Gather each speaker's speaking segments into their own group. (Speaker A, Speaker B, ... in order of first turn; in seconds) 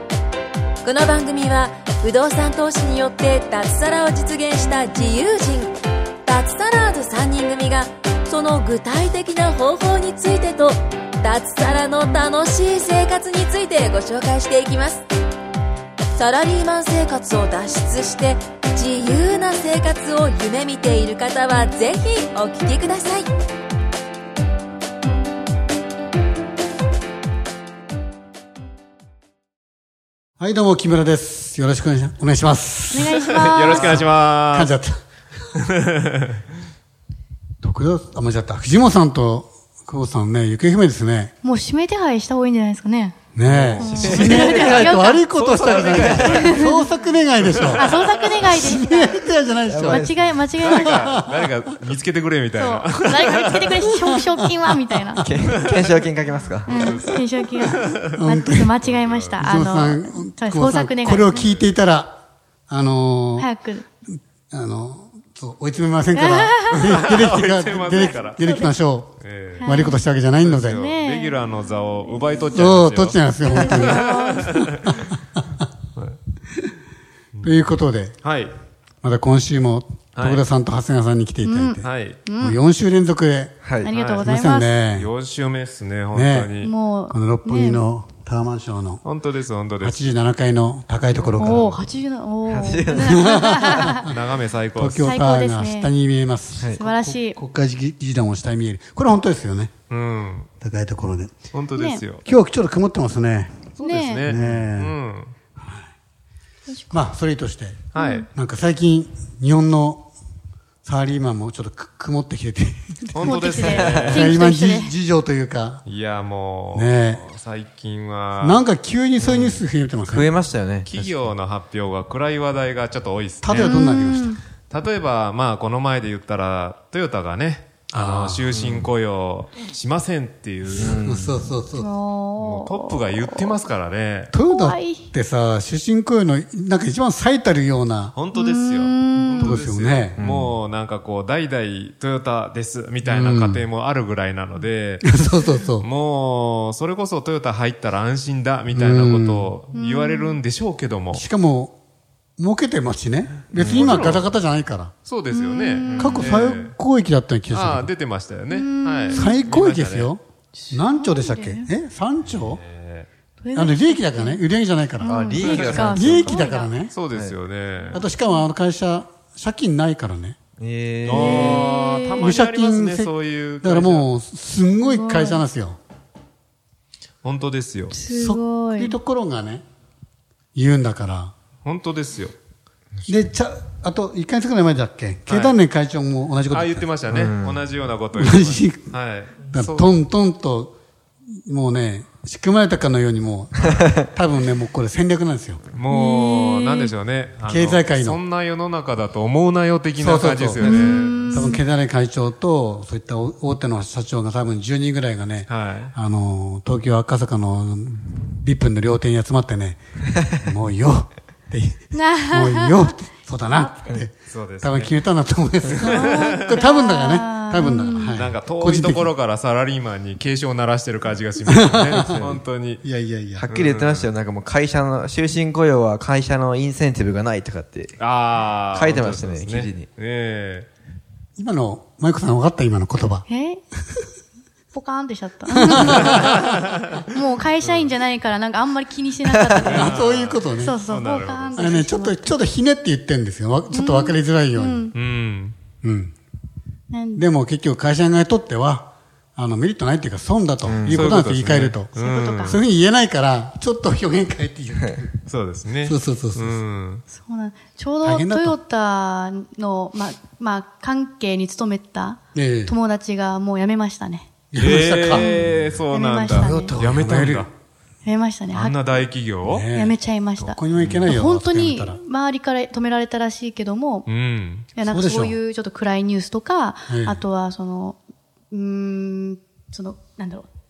Speaker A: 0.8-15.1, 16.1-23.3
Speaker B: 30.4-35.0, 37.6-41.3, 43.4-50.1, 50.6-51.5, 54.6-55.2, 58.2-58.7, 59.4-63.5, 64.5-70.8, 72.5-74.0, 77.4-78.2, 79.0-83.6, 84.2-85.1, 86.1-86.5, 87.1-89.0, 89.8-91.8, 93.1-94.2, 94.8-99.7, 100.6-101.4, 102.2-105.0, 105.6-105.9, 106.9-110.1, 110.8-115.8, 116.7-117.2, 118.4-120.3, 123.4-124.4, 127.9-128.5, 130.8-131.9, 134.3-138.2, 139.4-140.2, 143.0-143.7, 145.0-145.9, 148.7-149.5, 151.1-151.8, 152.4-154.9, 156.0-157.9, 159.1-162.6, 163.6-166.9, 167.9-170.4, 171.2-171.6, 172.1-175.8, 178.1-179.6, 180.6-181.3, 183.1-186.9, 188.2-188.9, 189.5-190.8, 191.5-195.6, 197.4-198.2, 200.0-219.1, 221.5-223.5, 231.4-233.3, 235.5-236.4, 239.6-240.8, 241.5-244.9, 245.8-246.2, 247.2-255.1, 255.8-256.6, 258.0-258.6, 262.3-262.7, 264.5-265.6, 266.3-267.5, 269.4-272.0, 274.8-275.4, 276.9-277.2
Speaker C: 32.9-34.0, 41.4-43.2, 43.8-45.2, 46.2-46.9, 47.7-49.3, 49.8-51.2, 52.5-55.2, 56.7-61.4, 63.4-63.9, 66.1-67.1, 67.8-68.8, 69.6-70.0, 70.6-72.4, 73.5-74.7, 81.4-82.6, 83.8-84.8, 86.6-87.8, 91.4-94.1, 95.0-95.9, 96.8-97.4, 101.8-102.0, 103.8-104.4, 106.7-107.0, 108.0-108.3, 113.2-115.0, 123.6-124.4, 131.8-133.6, 134.4-135.1, 138.3-139.6, 149.7-150.4, 155.3-156.4, 158.5-159.4, 160.5-161.7, 163.4-164.4, 165.0-166.7, 167.8-168.5, 171.1-172.3, 174.8-175.4, 177.9-178.9, 195.9-196.9, 200.6-201.6, 211.9-213.0, 213.5-213.8, 216.0-218.3, 233.3-233.6, 234.7-240.0, 240.6-242.4, 243.7-244.9, 246.9-247.3, 251.9-252.6, 257.1-264.3, 265.1-266.7, 268.0-269.1, 269.7-274.1, 274.8-278.0, 278.5-280.5
Speaker D: 33.2-34.7, 35.6-36.4, 45.3-46.7, 47.4-48.1, 50.6-53.9, 55.5-55.8, 56.7-58.0, 58.8-59.4, 61.3-61.7, 66.7-68.4, 69.2-69.8, 70.4-75.2, 77.3-77.7, 78.2-78.5, 80.2-80.4, 81.8-82.2, 83.9-84.4, 84.9-86.7, 89.0-90.2, 93.9-95.2, 99.9-100.5, 101.5-102.2, 103.8-105.3, 107.9-108.3, 113.1-114.3, 115.9-118.7, 120.8-123.8, 124.7-131.1, 132.4-134.3, 138.1-145.2, 145.8-151.2, 153.5-154.3, 155.1-156.7, 157.5-160.1, 162.3-163.1, 165.4-165.8, 166.9-168.0, 171.1-174.1, 177.2-178.0, 181.6-182.3, 185.3-185.6, 186.5-189.9, 195.7-201.5, 205.5-205.9, 214.3-215.0, 215.8-216.6, 217.6-222.8, 223.5-224.1, 228.0-230.7, 235.8-237.0, 237.6-237.9, 239.6-241.8, 244.9-245.6, 250.8-252.6, 255.3-257.0, 264.6-267.5, 268.5-269.7, 270.8-271.0, 274.1-274.7
Speaker E: 43.4-44.9, 45.8-46.5, 49.7-50.4, 55.2-56.7, 83.6-83.9, 91.1-91.6, 92.5-93.3, 113.7-114.1, 119.2-121.3, 128.5-128.9, 130.7-131.5, 140.2-140.6, 153.7-153.9, 155.9-156.2, 165.1-166.5, 167.1-167.4, 170.6-171.7, 187.1-187.7, 223.4-228.0, 228.7-229.9, 250.7-251.1